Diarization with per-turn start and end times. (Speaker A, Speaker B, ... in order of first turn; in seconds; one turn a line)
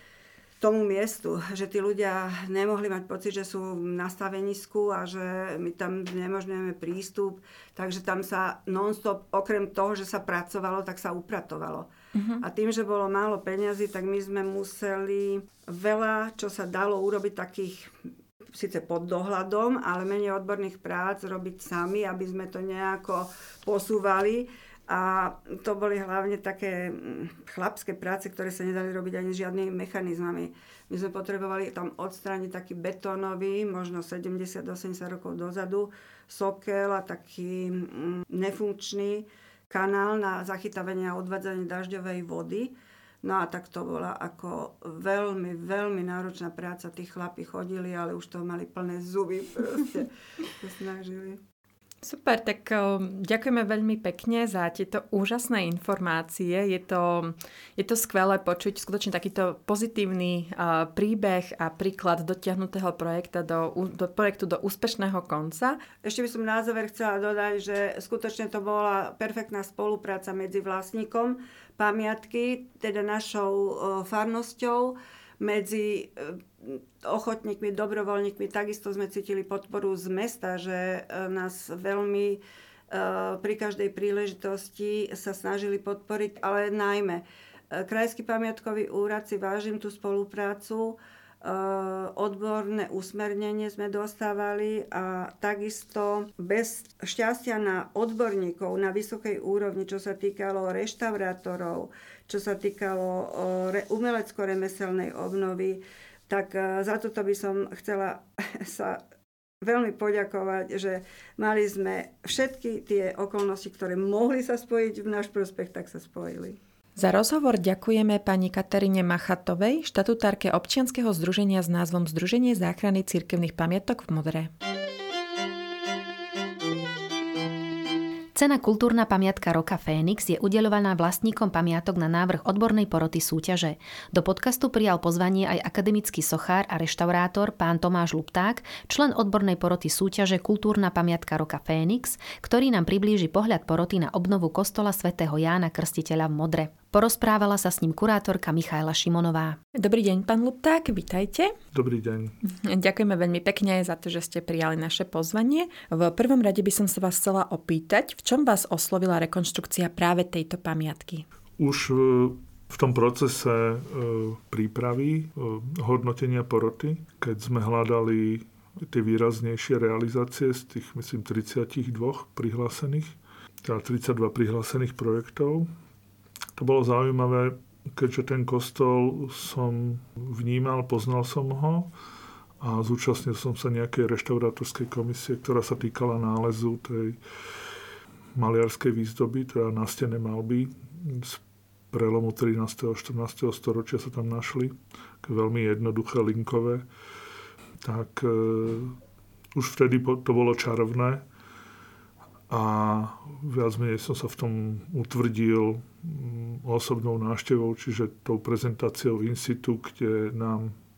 Speaker A: 0.6-17.9
Speaker B: 12.2-12.4
Speaker A: 18.5-51.4
Speaker B: 52.0-65.8
Speaker A: 66.0-109.0
Speaker A: 109.6-116.6
Speaker B: 117.0-124.5
Speaker C: 128.3-149.6
Speaker B: 149.7-151.5
Speaker D: 151.7-152.4
Speaker B: 152.4-161.3
Speaker D: 161.6-175.7
Speaker D: 176.6-181.9
Speaker D: 182.6-187.2
Speaker D: 188.4-196.9
Speaker D: 197.8-199.0
Speaker D: 199.6-201.2
Speaker D: 202.5-210.8